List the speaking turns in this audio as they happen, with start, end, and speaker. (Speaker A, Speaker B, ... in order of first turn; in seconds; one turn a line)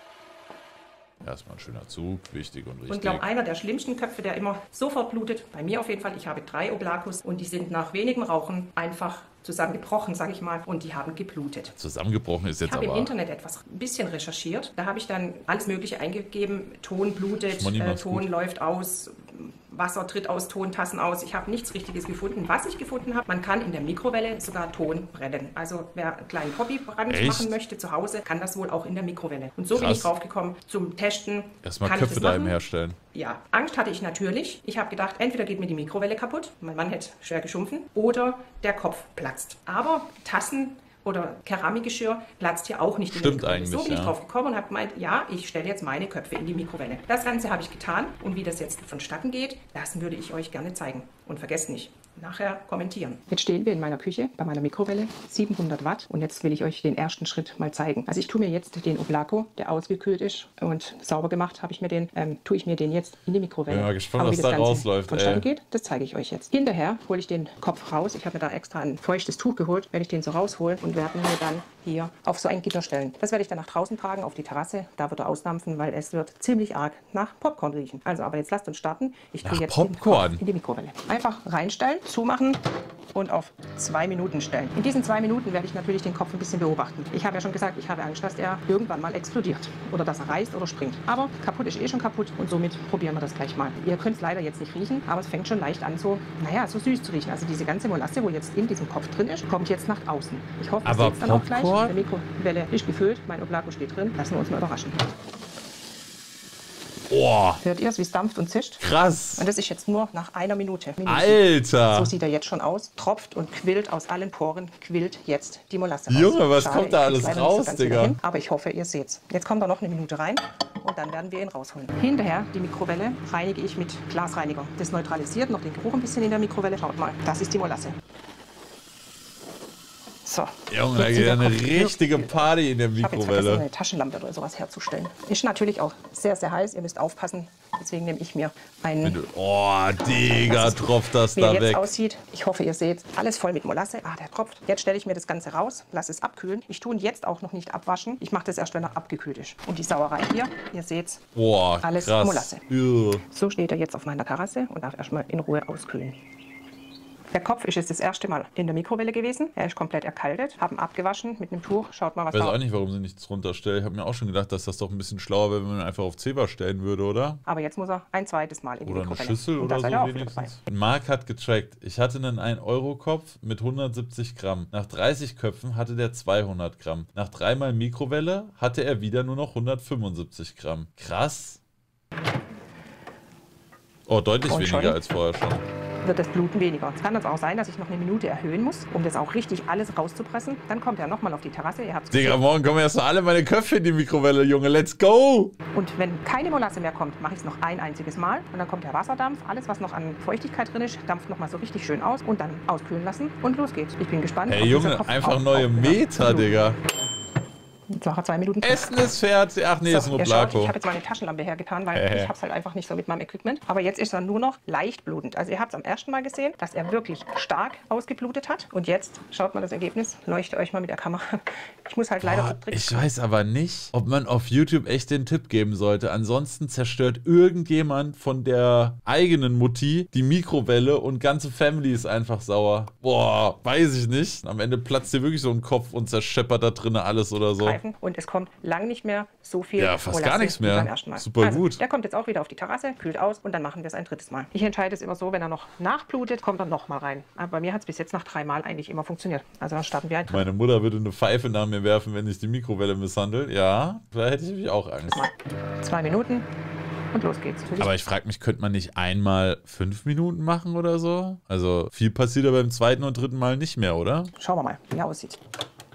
Speaker A: 1.2-3.2
Speaker B: 2.9-11.8
Speaker A: 11.8-13.1
Speaker B: 12.6-32.6
Speaker A: 17.5-18.3
Speaker A: 27.1-27.6
Speaker A: 29.7-30.1
Speaker A: 31.6-33.0
Speaker B: 33.1-82.6
Speaker A: 43.1-44.2
Speaker A: 63.7-65.5
Speaker A: 79.4-80.4
Speaker B: 83.1-105.0
Speaker A: 100.8-102.0
Speaker A: 107.1-107.6
Speaker B: 107.6-108.8
Speaker A: 108.8-109.5
Speaker B: 109.4-128.0
Speaker A: 111.1-112.1
Speaker A: 116.1-118.2
Speaker B: 130.2-139.2
Speaker A: 130.7-133.7
Speaker A: 139.0-141.9
Speaker B: 140.1-151.2
Speaker A: 151.3-153.2
Speaker B: 151.8-152.6
Speaker B: 153.3-156.2
Speaker B: 157.3-162.6
Speaker A: 162.3-167.4
Speaker B: 167.5-170.6
Speaker A: 168.8-181.6
Speaker A: 184.1-185.6
Speaker B: 184.5-185.0
Speaker B: 186.0-192.4
Speaker A: 192.1-195.5
Speaker B: 195.7-206.6
Speaker A: 204.5-206.8
Speaker B: 207.9-208.9
Speaker A: 208.6-210.8
Speaker B: 209.9-223.1
Speaker A: 211.9-212.3
Speaker A: 222.2-237.8
Speaker B: 237.6-250.5
Speaker A: 239.8-241.8
Speaker A: 250.3-255.3
Speaker B: 255.1-256.5
Speaker B: 257.1-257.9
Speaker A: 257.8-264.3
Speaker B: 264.4-265.4